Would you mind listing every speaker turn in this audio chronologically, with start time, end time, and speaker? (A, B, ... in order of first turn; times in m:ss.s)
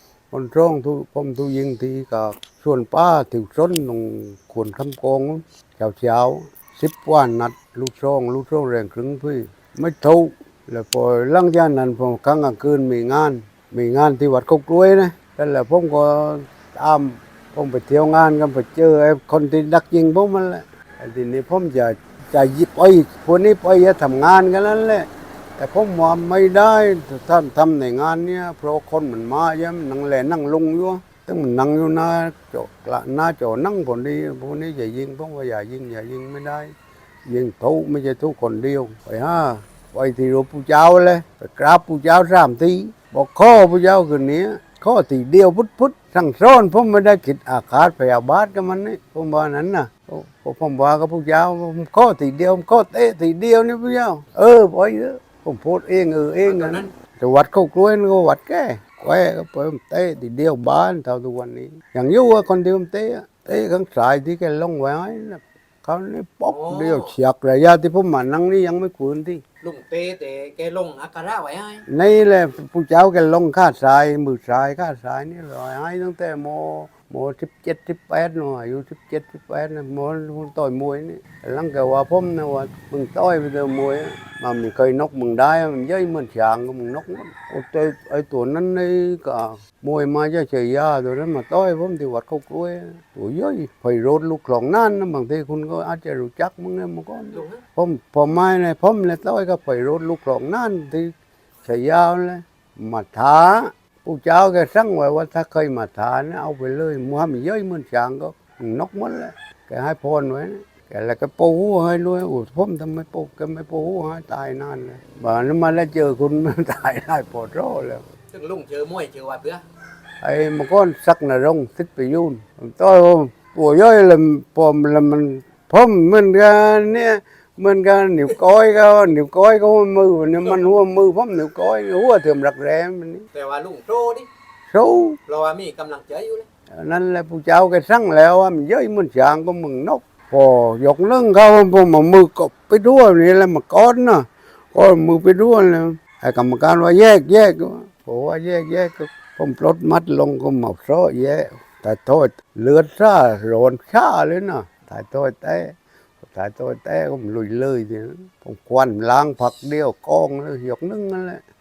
0:00.3-0:36.7 A
0:37.3-1:09.4 A
0:56.4-0:56.9 B
1:06.5-1:07.1 B
1:09.6-1:11.8 B
1:11.9-1:41.1 A
1:37.3-1:37.6 B
1:41.6-1:58.0 A
1:58.3-1:59.6 B
2:00.2-2:13.3 A
2:13.3-2:14.3 B
2:14.7-2:15.2 A
2:15.3-2:16.4 B
2:16.8-2:41.4 A